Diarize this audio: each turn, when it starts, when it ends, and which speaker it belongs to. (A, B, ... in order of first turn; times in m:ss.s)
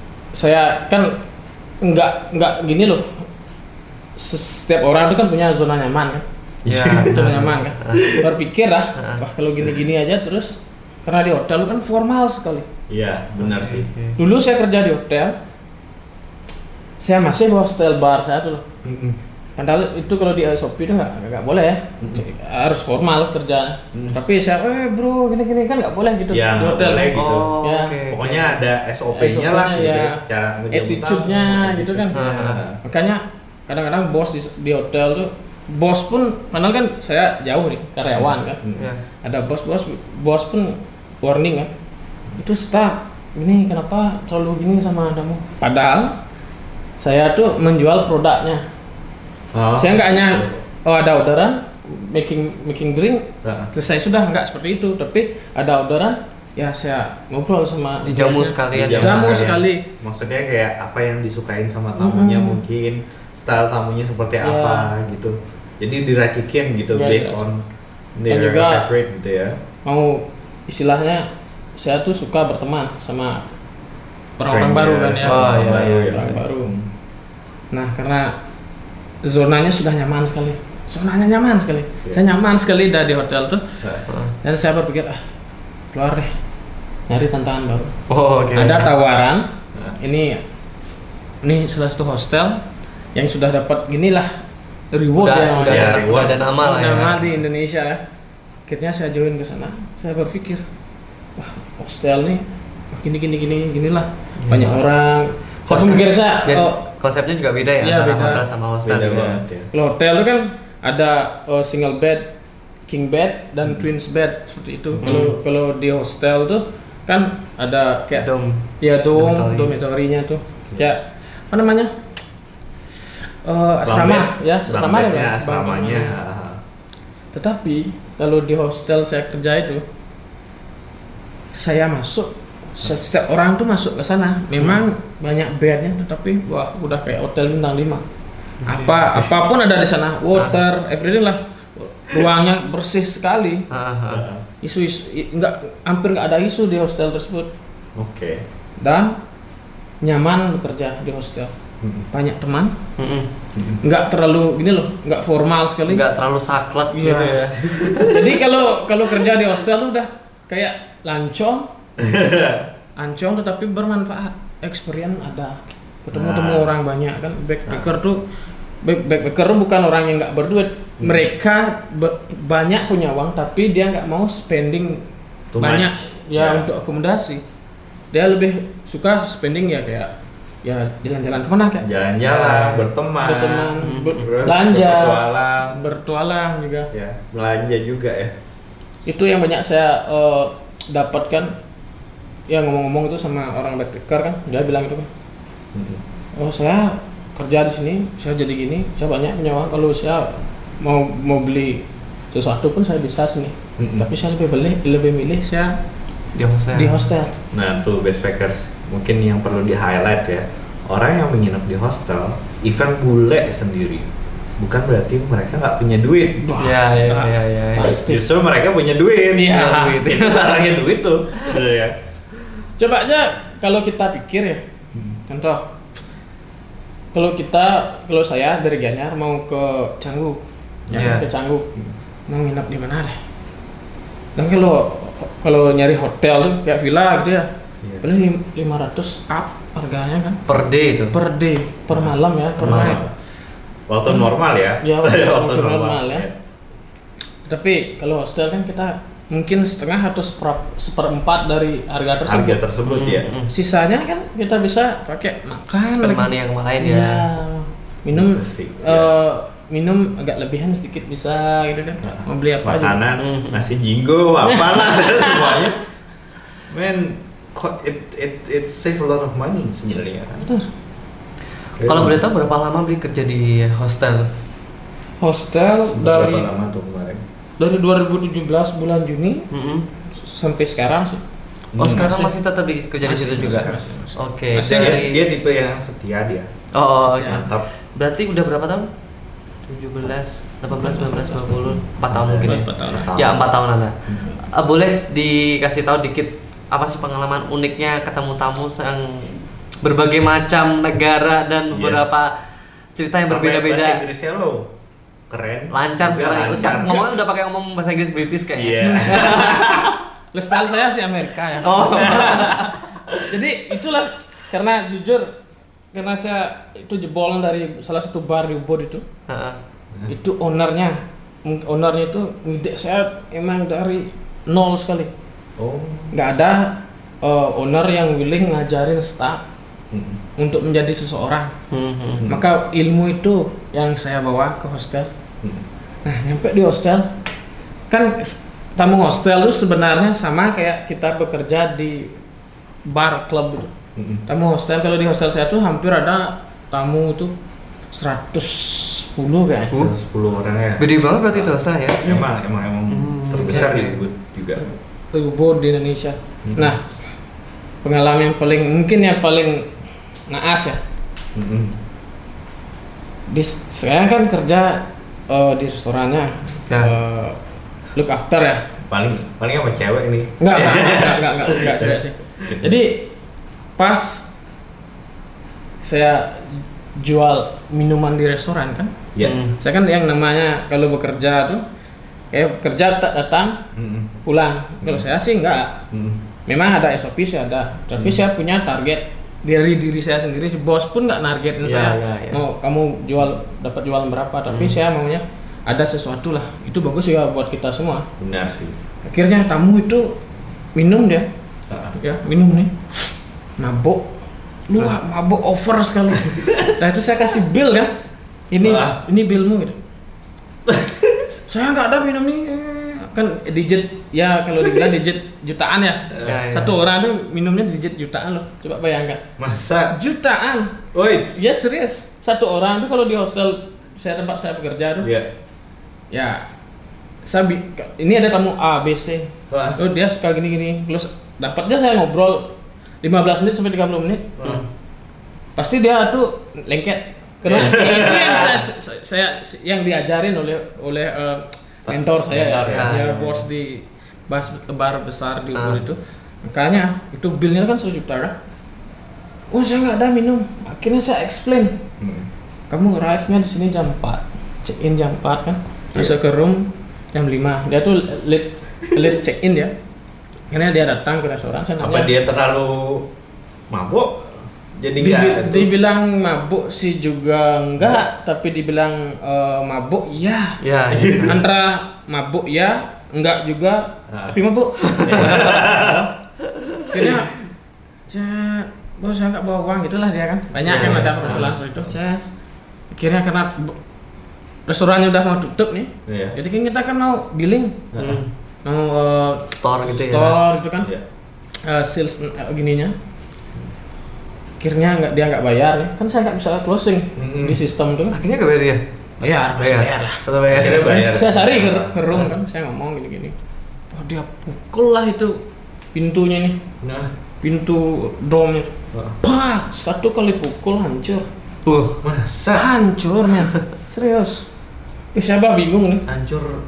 0:00.3-0:01.2 A
0:01.8-0:03.3 A
0:04.2-0:06.2 A
0:06.6-0:08.2 B
0:06.7-0:08.1 C
0:07.0-0:12.7 A
0:09.0-0:09.2 C
0:12.9-0:13.9 B
0:13.5-0:14.2 C
0:14.2-0:15.4 A
0:17.0-0:18.7 A
0:18.8-0:19.2 B
0:19.6-0:28.0 A
0:26.3-0:27.6 B
0:27.1-0:28.6 C
0:28.1-0:32.8 B
0:29.1-0:38.6 A
0:32.1-0:32.6 C
0:38.2-0:38.9 B
0:39.2-0:41.7 A
0:42.4-0:46.2 A
0:47.0-0:48.6 A
0:49.5-0:50.6 B
0:49.8-0:59.9 A
0:53.4-0:53.7 B
0:58.0-0:59.6 C
0:58.7-1:07.6 B
1:02.0-1:02.6 A
1:04.4-1:04.9 A
1:06.9-1:07.4 A
1:08.2-1:09.6 B
1:08.3-1:08.9 A
1:09.8-1:13.5 A
1:14.4-1:16.7 A
1:14.4-1:16.9 B
1:15.2-1:16.2 C
1:17.7-1:18.4 A
1:19.2-1:23.8 A
1:24.4-1:25.2 A
1:25.9-1:26.3 A
1:27.1-1:28.0 A
1:28.1-1:28.9 C
1:28.5-1:30.4 A
1:31.4-1:32.6 A
1:33.1-1:38.0 A
1:35.2-1:37.2 C
1:35.6-1:36.4 B
1:38.7-1:40.6 A
1:41.4-1:46.8 A
1:44.4-1:44.8 C
1:45.7-1:49.4 C
1:47.8-1:48.4 A
1:48.8-1:49.7 B
1:49.7-1:52.3 A
1:52.9-1:58.3 A
1:55.0-1:55.3 C
1:58.2-1:59.7 C
1:58.8-2:02.0 A
2:03.4-2:06.2 A
2:03.8-2:06.6 B
2:07.3-2:09.8 A
2:11.5-2:18.0 A
2:18.6-2:19.0 C
2:18.6-2:23.7 A
2:23.7-2:24.3 C
2:24.1-2:24.4 B
2:24.6-2:27.5 A
2:28.0-2:28.4 B
2:28.8-2:29.2 A
2:30.0-2:31.5 A
2:31.8-2:32.1 B
2:32.1-2:32.8 A
2:33.0-2:33.3 C
2:33.5-2:33.8 B
2:33.8-2:36.1 A
2:35.9-2:38.4 C
2:36.9-2:41.7 A
2:42.0-2:42.7 B
2:43.0-2:48.2 A
2:46.1-2:46.7 B
2:48.8-2:57.4 A
2:55.5-2:56.7 B
2:58.1-3:00.1 A
3:00.6-3:06.9 A
3:01.8-3:05.8 B
3:03.8-3:04.3 C
3:06.9-3:08.4 B
3:09.1-3:11.6 A
3:12.5-3:15.1 A
3:15.7-3:16.0 B
3:16.4-3:25.8 A
3:23.8-3:24.1 B
3:26.3-3:27.1 C
3:26.7-3:27.3 A
3:27.5-3:36.5 B
3:36.4-3:38.2 A
3:36.6-3:37.9 C
3:37.8-3:42.0 B
3:39.3-3:40.1 A
3:39.5-3:40.5 C
3:42.8-3:44.6 A
3:45.3-3:45.7 A
3:47.1-3:50.4 A
3:50.9-3:51.2 B
3:50.9-3:51.7 A
3:50.9-3:51.3 C
3:52.3-3:53.2 A
3:54.4-3:57.5 A
3:57.8-3:58.2 B
3:58.0-4:00.4 A
4:00.5-4:01.2 C
4:01.1-4:03.0 A
4:01.9-4:03.1 B
4:02.6-4:03.0 C
4:03.9-4:06.3 B
4:04.1-4:06.3 A
4:07.5-4:12.6 A
4:12.2-4:13.3 B
4:12.9-4:13.5 C
4:13.5-4:23.0 A
4:15.9-4:17.2 C
4:18.1-4:19.2 B
4:22.0-4:25.8 B
4:23.2-4:23.7 C
4:24.4-4:25.6 A
4:26.7-4:30.5 B
4:30.4-4:30.7 A
4:31.8-4:32.2 B
4:31.8-4:34.3 C
4:35.2-4:36.5 A
4:35.9-4:37.2 B
4:37.6-4:39.5 A
4:39.5-4:39.9 C
4:40.1-4:41.2 A
4:41.7-4:42.1 B
4:41.8-4:45.2 C
4:41.8-4:42.3 A
4:43.0-4:45.1 A
4:44.7-4:46.5 B
4:46.7-4:48.9 C
4:47.0-4:47.5 A
4:47.2-4:47.6 B
4:49.6-5:02.3 C
4:50.7-4:51.5 A
4:52.1-4:53.4 B
4:52.4-4:53.1 A
5:01.7-5:02.1 B
5:03.0-5:04.0 C
5:03.2-5:04.7 B
5:05.3-5:07.1 B
5:05.7-5:09.8 C
5:06.6-5:07.0 A
5:08.5-5:10.0 B
5:08.8-5:09.7 A
5:10.3-5:12.6 A
5:11.6-5:12.8 C
5:11.9-5:13.2 B
5:13.3-5:15.3 A
5:15.9-5:19.1 A
5:19.3-5:19.6 C
5:20.1-5:25.1 A
5:25.6-5:26.1 B
5:26.1-5:29.4 A
5:29.9-5:30.2 B
5:30.4-5:31.5 A
5:31.7-5:32.2 C
5:32.2-5:35.1 A
5:36.0-5:37.1 A
5:37.9-5:42.2 A
5:42.9-5:43.7 A
5:44.0-5:44.2 B
5:44.3-5:47.4 A
5:47.9-5:49.8 A
5:49.7-5:54.6 B
5:50.8-5:52.3 C
5:52.9-5:54.0 C
5:53.5-5:53.8 A
5:55.1-5:56.8 A
5:56.4-5:56.7 B
5:57.8-5:59.7 A
6:00.3-6:00.8 A
6:01.4-6:01.8 B
6:03.3-6:07.4 A
6:08.0-6:08.7 A
6:08.9-6:12.6 B
6:10.4-6:13.1 A
6:13.8-6:14.3 A
6:15.8-6:19.0 A
6:19.2-6:19.5 C
6:19.6-6:21.6 A
6:22.3-6:23.7 A
6:23.8-6:24.1 B
6:24.2-6:25.8 A
6:25.9-6:26.2 B
6:26.5-6:38.1 A
6:31.6-6:32.4 C
6:34.5-6:34.8 C
6:38.2-6:38.8 B
6:39.0-6:40.2 A
6:40.7-6:41.3 A
6:41.7-6:42.0 B
6:41.9-6:44.1 A
6:44.7-6:48.0 A
6:48.5-6:49.8 A
6:48.6-6:49.0 B
6:50.6-6:51.4 B
6:51.5-6:59.2 A
6:56.1-6:56.4 B
6:56.2-6:56.8 C
6:59.4-7:00.0 B
6:59.9-7:00.8 A
7:00.9-7:01.4 B
7:01.3-7:05.1 A
7:05.0-7:05.3 B
7:06.1-7:06.4 A
7:07.2-7:14.6 A
7:09.5-7:09.8 B
7:14.4-7:14.6 B
7:15.6-7:28.4 A
7:17.5-7:18.6 B
7:21.9-7:23.4 B
7:22.7-7:23.1 C
7:25.5-7:25.8 C
7:29.5-7:31.8 A
7:32.0-7:32.3 B
7:32.7-7:39.7 A
7:40.5-7:42.1 A
7:41.8-7:43.1 B
7:43.7-7:45.7 B
7:45.0-7:50.6 A
7:50.6-7:51.4 C
7:50.9-7:51.4 B
7:51.2-7:55.6 A
7:54.1-7:54.4 B
7:55.0-7:56.1 B
7:55.1-7:55.6 C
7:56.9-7:57.3 A
7:58.1-8:02.3 A
8:00.7-8:01.5 C
8:00.7-8:01.6 B
8:02.9-8:03.8 A
8:04.7-8:07.9 A
8:06.1-8:06.4 B
8:07.9-8:08.2 B
8:08.0-8:08.3 C
8:08.6-8:10.9 A
8:09.5-8:10.4 C
8:11.6-8:13.0 A
8:14.6-8:18.2 A
8:17.2-8:17.6 B
8:18.1-8:18.8 C
8:19.2-8:23.4 A
8:19.6-8:21.0 C
8:20.5-8:22.2 B
8:23.9-8:26.6 A
8:26.8-8:27.1 B
8:27.4-8:31.3 A
8:31.6-8:32.0 C
8:32.0-8:32.7 B
8:32.5-8:34.5 A
8:35.1-8:36.1 A
8:36.1-8:36.4 B